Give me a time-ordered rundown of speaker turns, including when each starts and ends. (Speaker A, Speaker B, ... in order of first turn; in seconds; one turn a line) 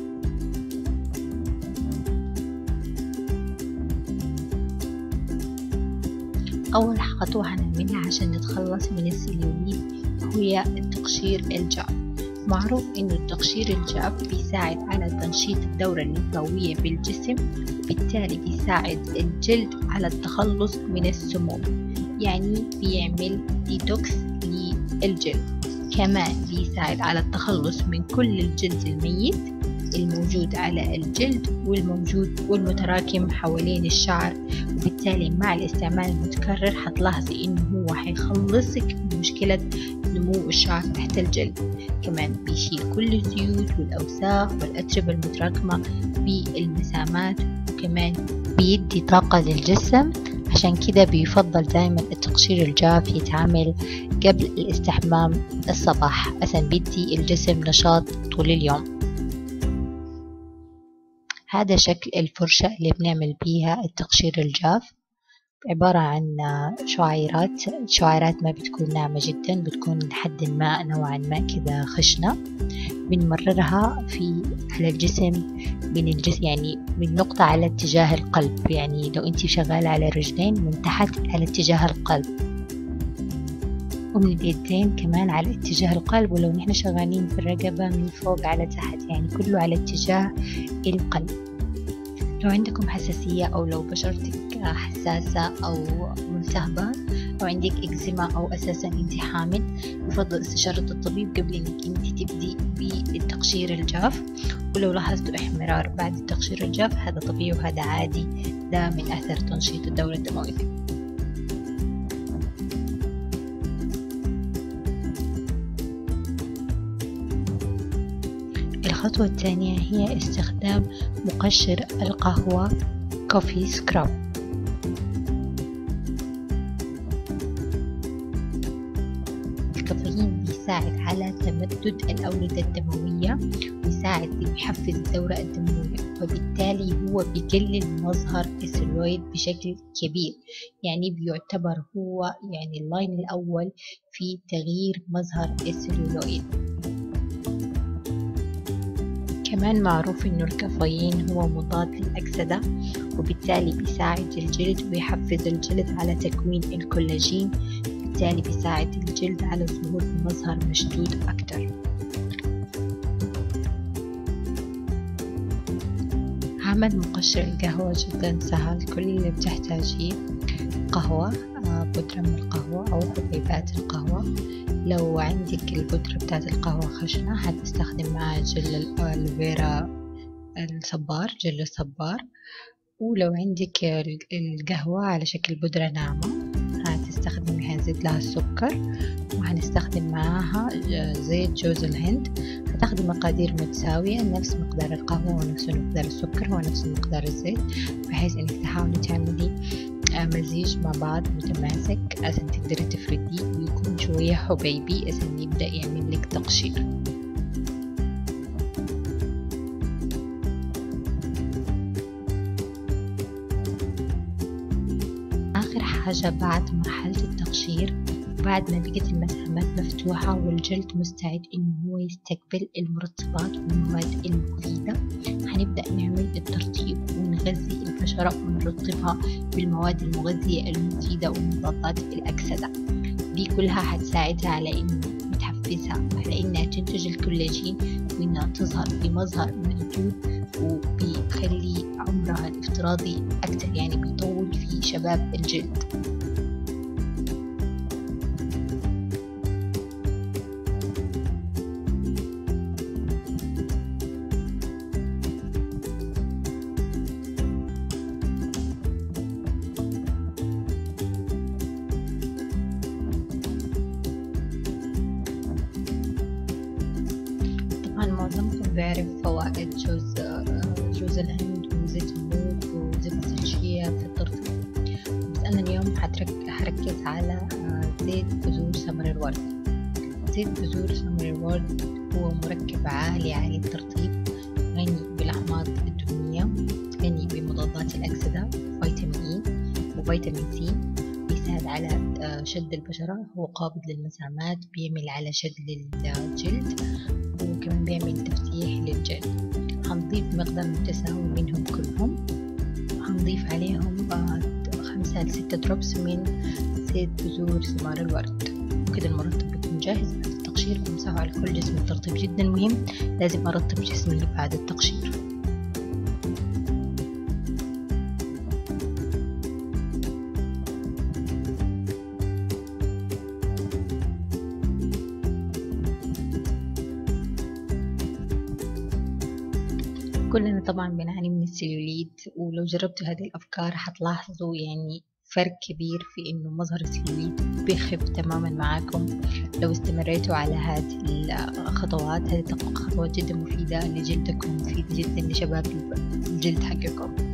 Speaker A: 6.7-11.9
Speaker A: 12.5-39.6
Speaker A: 40.1-58.8
Speaker A: 61.5-64.8
Speaker A: 65.7-72.3
Speaker A: 73.1-75.4
Speaker A: 75.9-82.2
Speaker A: 84.2-90.2
Speaker A: 90.9-91.3
Speaker A: 92.4-104.2
Speaker A: 104.7-110.7
Speaker A: 118.8-122.7
Speaker A: 123.3-124.1
Speaker A: 129.8-146.5
Speaker A: 149.5-152.6
Speaker A: 153.2-157.5
Speaker A: 158.0-161.7
Speaker A: 166.7-170.1
Speaker A: 170.9-174.2
Speaker A: 174.9-179.7
Speaker A: 180.6-182.2
Speaker A: 183.0-188.8
Speaker A: 189.4-199.5
Speaker A: 200.2-206.8
Speaker A: 215.6-225.0
Speaker A: 225.5-232.7
Speaker A: 233.3-245.8
Speaker A: 267.8-274.5
Speaker A: 275.3-279.5
Speaker A: 280.3-284.2
Speaker A: 284.7-286.5
Speaker A: 287.0-289.4
Speaker A: 289.9-290.8
Speaker A: 291.3-296.7
Speaker A: 297.3-299.3
Speaker A: 299.9-302.1
Speaker A: 303.0-306.3
Speaker A: 306.8-315.1
Speaker A: 330.3-339.1
Speaker A: 339.6-347.1